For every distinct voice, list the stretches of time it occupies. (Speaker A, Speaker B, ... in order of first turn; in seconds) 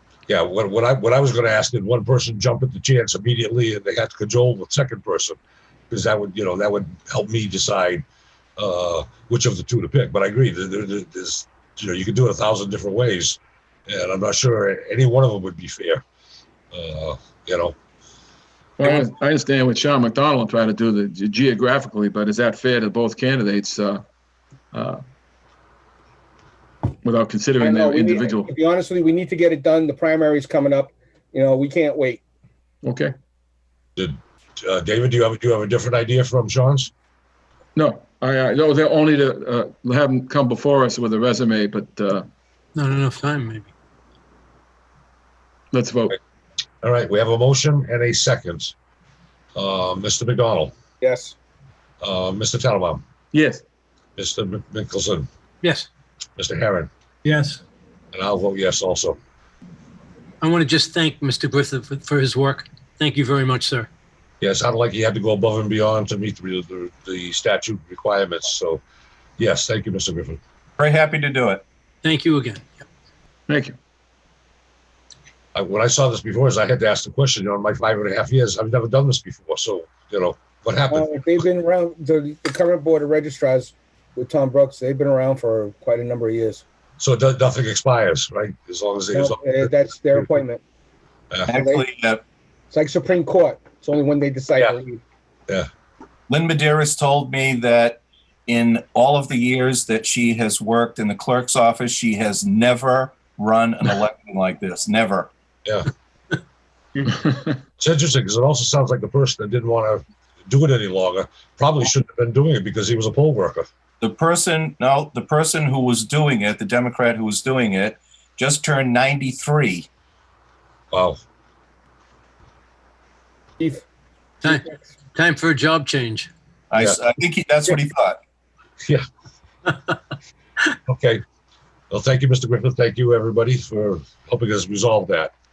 Speaker A: 0.3-5.4, 5.9-8.0, 8.6-16.0, 16.7-17.8, 34.0-36.9, 46.8-48.7, 49.5-50.7, 52.0-53.0, 54.2-55.3, 56.4-56.9, 58.1-59.2, 64.4-68.8, 69.4-70.4, 75.5-81.2, 87.0-90.3, 107.8-113.7, 120.9-121.2, 130.9-131.2, 131.9-135.3
Speaker B: 18.8-24.0, 24.7-25.0, 27.0-28.5, 32.8-33.1, 37.8-42.3, 45.7-46.2, 53.3-53.6, 73.5-73.8
Speaker C: 27.6-32.2, 51.0-51.3, 80.9-86.6, 89.1-90.6, 92.7-95.0, 124.4-124.7
Speaker D: 42.7-43.7, 55.6-55.9, 60.4-63.9, 72.0-72.7, 124.4-126.3
Speaker E: 70.8-71.6, 91.5-92.2, 96.3-105.3, 114.0-119.9, 126.7-128.2